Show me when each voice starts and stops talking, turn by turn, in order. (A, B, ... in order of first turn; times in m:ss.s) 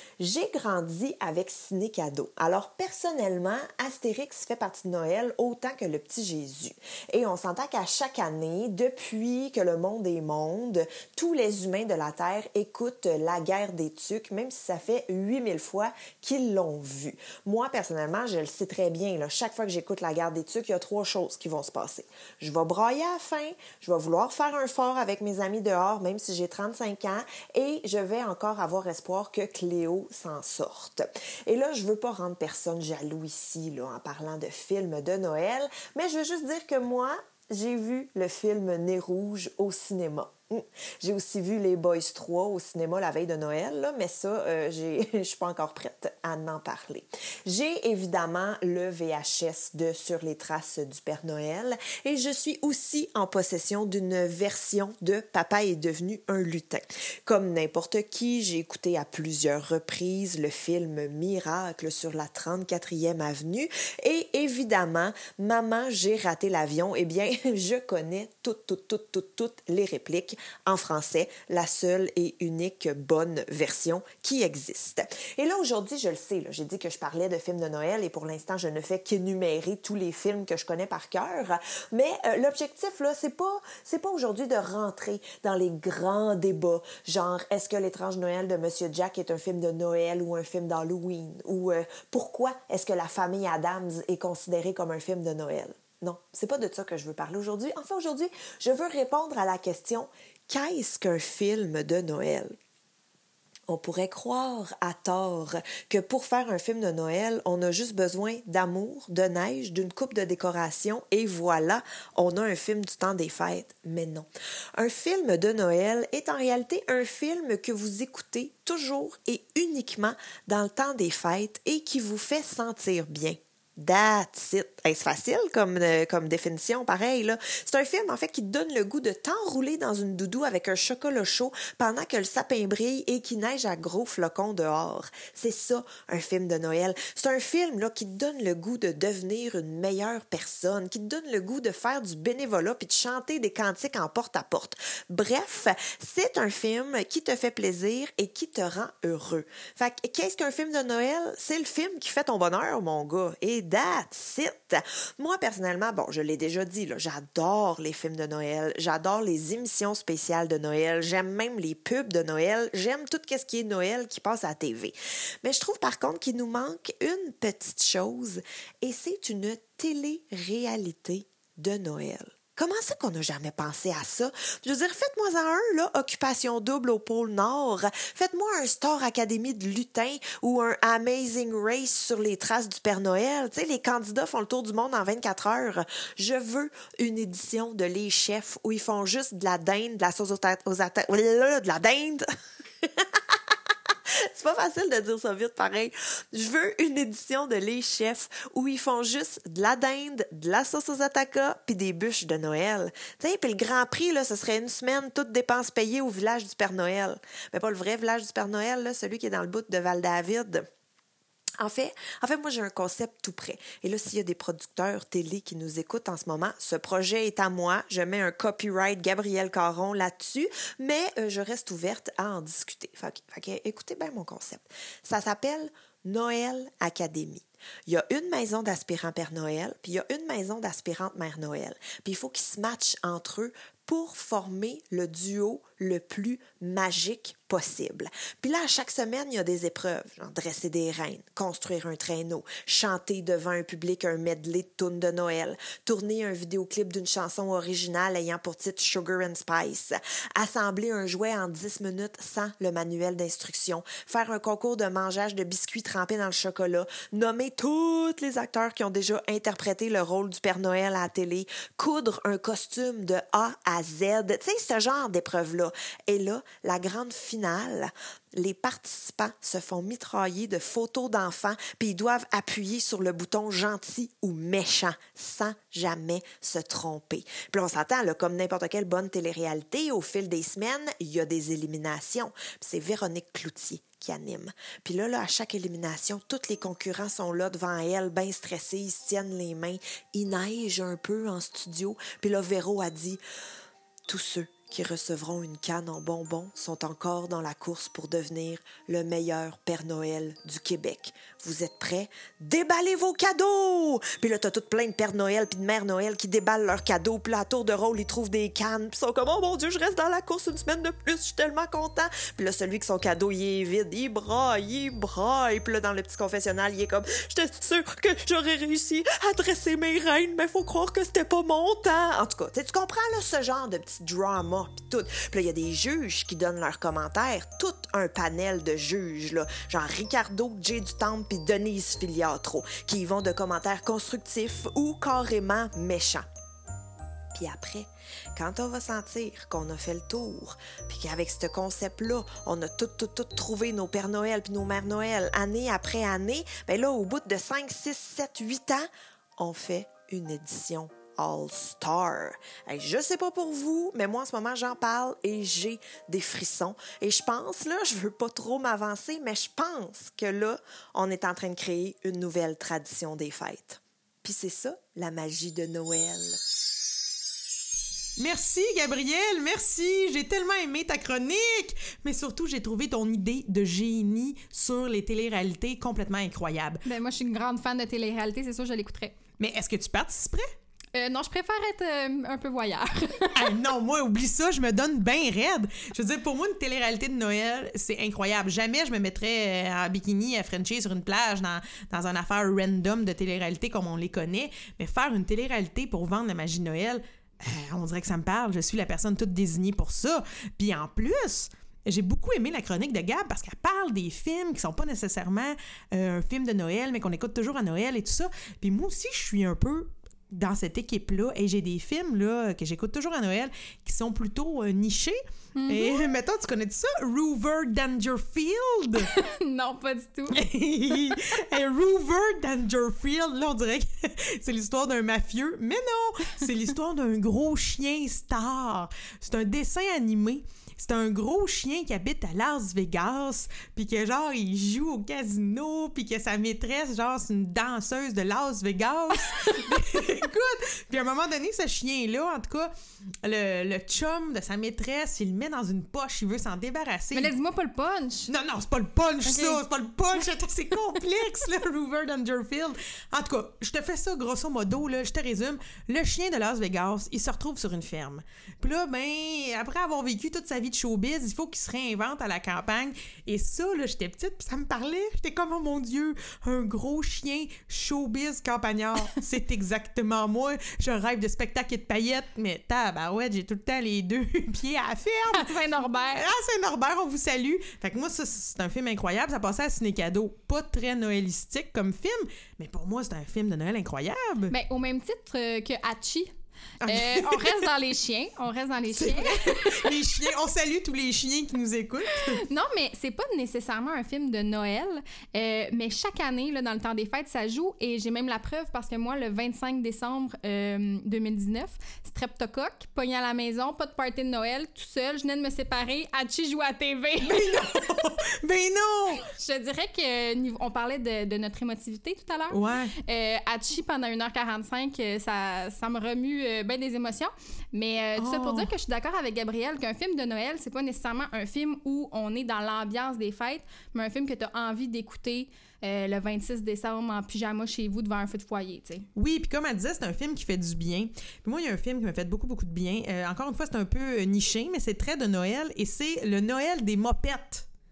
0:00.2-1:42.5 A
1:43.7-3:12.2 A
3:12.8-3:30.6 A
3:31.6-4:53.2 A
4:54.1-5:36.3 A
5:37.3-6:06.4 A
6:08.2-6:16.8 B
6:16.8-6:19.2 C
6:19.4-6:20.5 B
6:20.9-6:23.5 C
6:23.3-6:59.1 B
6:55.6-6:56.1 C
6:59.1-7:00.4 C
7:00.3-7:22.7 B
7:19.2-7:19.8 C
7:23.2-7:27.3 B
7:27.1-7:28.3 C
7:28.3-8:04.5 B
7:29.3-7:29.6 C
7:55.3-7:56.2 C
8:04.5-8:06.3 C
8:06.8-8:07.7 B
8:06.9-8:10.0 C
8:08.9-8:12.4 B
8:12.4-8:27.7 C
8:27.2-8:29.3 B
8:29.2-8:49.1 C
8:32.5-8:33.0 B
8:38.2-8:38.7 B
8:49.2-8:57.7 B